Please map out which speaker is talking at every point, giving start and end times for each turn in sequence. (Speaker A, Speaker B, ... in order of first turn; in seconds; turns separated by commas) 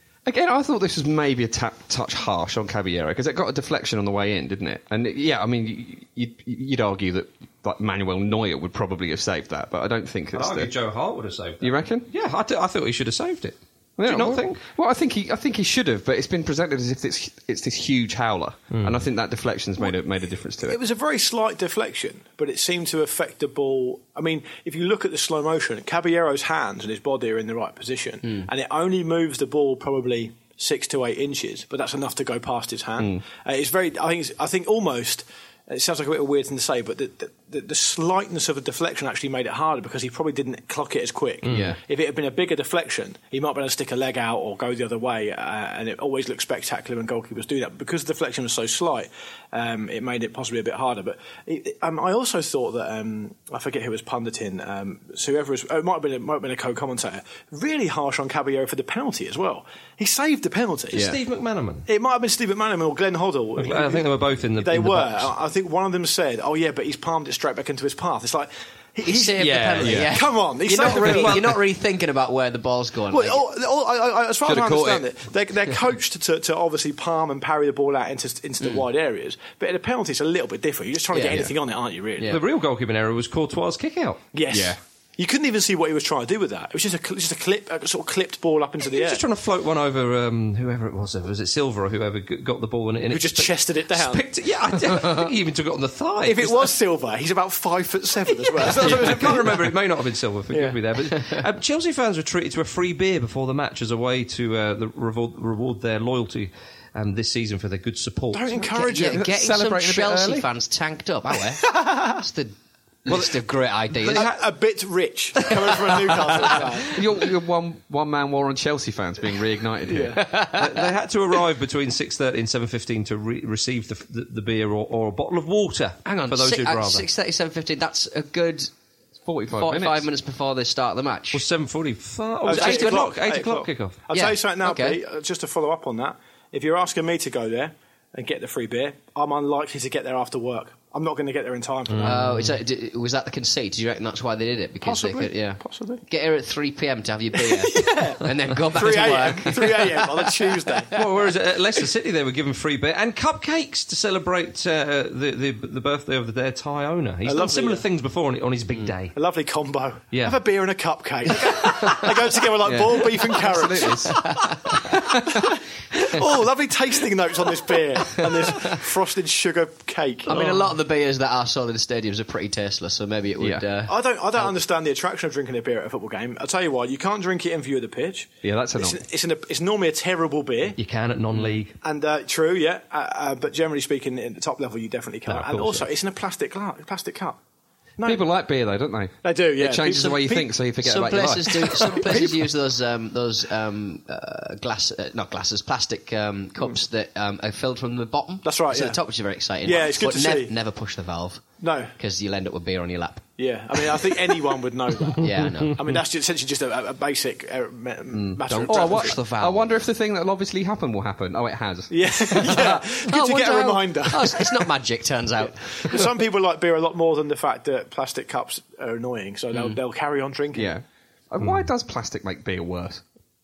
Speaker A: 0.2-10.7, Speaker B: 10.3-14.6, Speaker A: 11.6-12.1, Speaker A: 14.0-20.8, Speaker B: 18.7-19.0, Speaker C: 20.6-61.1, Speaker B: 41.4-41.7, Speaker A: 41.5-41.8, Speaker B: 60.9-61.9, Speaker C: 61.9-64.1, Speaker B: 63.6-65.3, Speaker C: 64.6-71.4, Speaker D: 69.0-73.4, Speaker B: 69.4-70.1, Speaker A: 69.8-70.1, Speaker B: 70.8-71.5, Speaker C: 73.1-82.3, Speaker A: 74.4-75.0, Speaker D: 81.1-81.5, Speaker B: 82.3-84.2, Speaker C: 84.3-89.2, Speaker A: 84.5-84.8, Speaker B: 88.9-96.7, Speaker C: 93.1-94.2, Speaker C: 96.2-99.8, Speaker B: 98.4-108.7, Speaker C: 108.3-109.2, Speaker D: 108.7-112.5, Speaker A: 109.0-110.5, Speaker C: 111.7-112.0, Speaker D: 113.0-114.3, Speaker B: 113.1-113.3, Speaker B: 113.9-114.5, Speaker C: 114.1-117.0, Speaker B: 115.9-116.7, Speaker A: 116.9-120.2, Speaker C: 119.9-120.2, Speaker D: 120.1-120.9, Speaker B: 120.5-127.0, Speaker D: 126.0-128.7, Speaker A: 129.2-130.1, Speaker D: 129.5-131.4, Speaker B: 131.3-134.0, Speaker C: 132.4-142.1, Speaker D: 132.5-133.1, Speaker D: 134.1-135.0, Speaker B: 141.9-142.5, Speaker D: 142.0-151.0, Speaker C: 144.8-146.0, Speaker C: 147.3-150.9, Speaker B: 150.9-159.2, Speaker C: 157.2-157.8, Speaker C: 159.1-170.6, Speaker B: 160.1-160.4, Speaker A: 162.6-164.2, Speaker D: 164.1-165.0, Speaker D: 170.2-174.5, Speaker A: 173.4-173.6, Speaker C: 173.9-180.8, Speaker A: 178.4-179.0, Speaker B: 180.8-181.8, Speaker C: 181.3-187.4, Speaker B: 185.3-185.9, Speaker C: 188.0-188.2, Speaker A: 188.0-192.3, Speaker C: 189.2-190.5, Speaker D: 190.8-204.2, Speaker C: 191.6-192.3, Speaker C: 198.4-199.0, Speaker C: 199.6-200.5, Speaker C: 201.6-201.9, Speaker C: 203.4-209.2, Speaker D: 205.2-205.8, Speaker B: 205.3-205.9, Speaker A: 208.1-212.6, Speaker D: 208.4-209.7, Speaker C: 211.9-214.7, Speaker D: 212.3-216.1, Speaker C: 215.4-220.7, Speaker A: 220.5-223.0